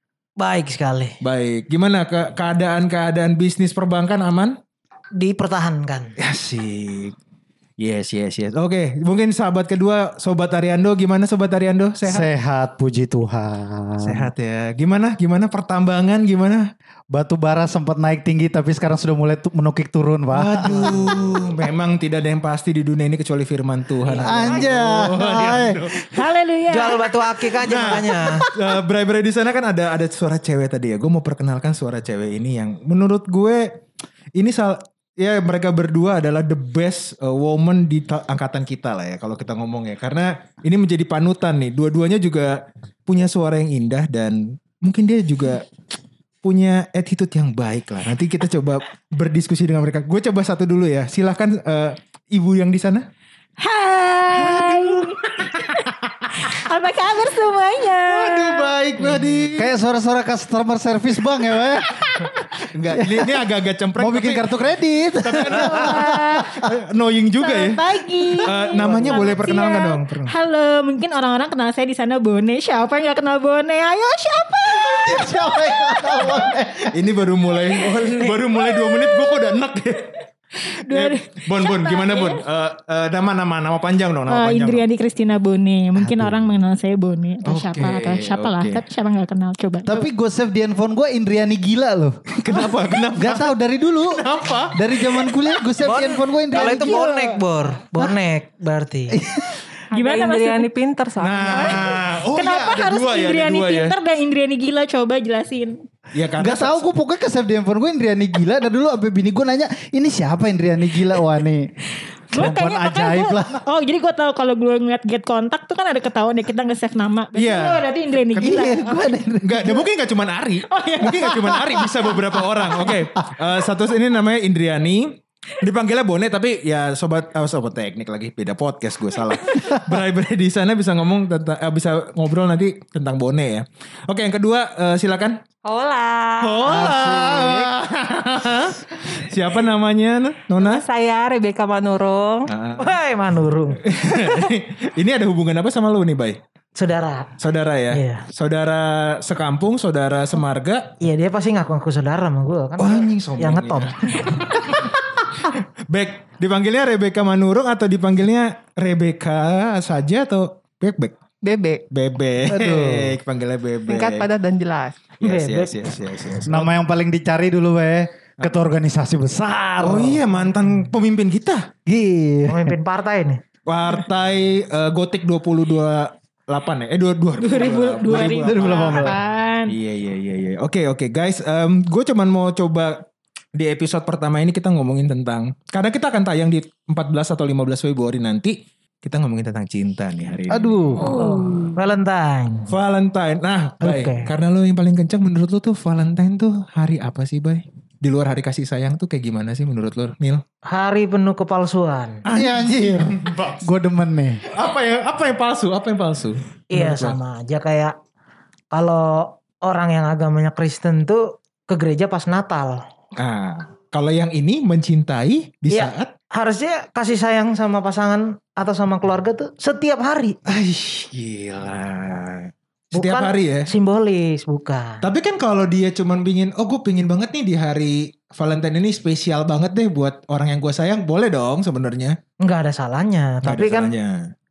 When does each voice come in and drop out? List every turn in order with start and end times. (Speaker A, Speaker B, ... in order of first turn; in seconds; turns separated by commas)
Speaker A: 0.4-1.1, Speaker B: 1.2-4.5, Speaker A: 5.2-6.2, Speaker B: 6.2-7.1, Speaker B: 7.8-12.3, Speaker C: 12.0-14.3, Speaker B: 14.0-16.7, Speaker C: 17.1-21.2, Speaker B: 20.3-26.0, Speaker A: 24.1-24.7, Speaker C: 24.1-26.2, Speaker D: 26.1-27.1, Speaker A: 26.7-28.5, Speaker B: 27.6-33.7, Speaker B: 34.4-45.7, Speaker B: 46.4-53.1, Speaker D: 53.6-58.7, Speaker B: 54.4-55.9, Speaker B: 58.1-59.7, Speaker C: 59.5-62.1, Speaker B: 62.6-64.4, Speaker C: 63.0-63.3, Speaker C: 64.0-66.7, Speaker B: 65.2-67.8, Speaker D: 65.4-66.6, Speaker D: 67.4-76.3, Speaker B: 68.4-70.3, Speaker C: 74.7-77.0, Speaker B: 76.9-80.2, Speaker D: 77.9-79.5, Speaker D: 80.6-82.4, Speaker B: 80.9-84.8, Speaker D: 84.3-90.0, Speaker C: 86.0-86.4, Speaker B: 87.4-88.8, Speaker C: 89.8-92.6, Speaker B: 92.3-93.5, Speaker C: 93.2-97.0, Speaker B: 94.1-95.4, Speaker A: 95.8-99.2, Speaker D: 96.5-97.5, Speaker C: 99.1-99.7, Speaker E: 99.9-102.0, Speaker D: 99.9-100.7, Speaker B: 101.2-103.9, Speaker D: 101.5-105.8, Speaker B: 106.1-106.9, Speaker C: 106.4-111.7, Speaker D: 112.3-119.1, Speaker C: 112.3-113.6, Speaker B: 117.3-118.6, Speaker C: 118.4-119.9, Speaker B: 119.4-135.4, Speaker D: 120.7-122.2, Speaker E: 135.6-136.8, Speaker B: 136.4-140.8, Speaker C: 136.7-137.7, Speaker E: 140.6-142.5, Speaker B: 142.5-143.0, Speaker A: 142.8-143.8, Speaker B: 143.8-146.4, Speaker A: 146.8-147.3, Speaker B: 147.4-150.9, Speaker A: 147.9-148.2, Speaker A: 151.0-154.1, Speaker B: 152.8-161.1, Speaker E: 161.4-161.8, Speaker B: 161.9-164.3, Speaker C: 162.5-163.2, Speaker E: 163.9-165.0, Speaker A: 165.2-165.9, Speaker B: 165.2-166.7, Speaker C: 166.5-170.2, Speaker B: 169.8-171.7, Speaker C: 171.9-172.8, Speaker A: 172.5-173.4, Speaker B: 173.7-179.1, Speaker D: 177.4-179.8, Speaker C: 178.1-179.2, Speaker B: 179.7-183.1, Speaker B: 183.6-191.1, Speaker C: 190.5-191.3, Speaker A: 191.1-192.7, Speaker D: 191.2-191.7, Speaker B: 192.7-200.4, Speaker A: 193.8-194.3, Speaker A: 200.7-202.2, Speaker B: 202.2-203.7, Speaker C: 202.3-204.4, Speaker B: 204.5-207.2, Speaker A: 206.7-207.9, Speaker A: 208.7-212.8, Speaker B: 213.1-216.1, Speaker A: 215.7-220.4, Speaker B: 220.4-223.7, Speaker A: 222.9-225.0, Speaker B: 225.0-232.2, Speaker A: 232.4-233.9, Speaker B: 233.4-234.3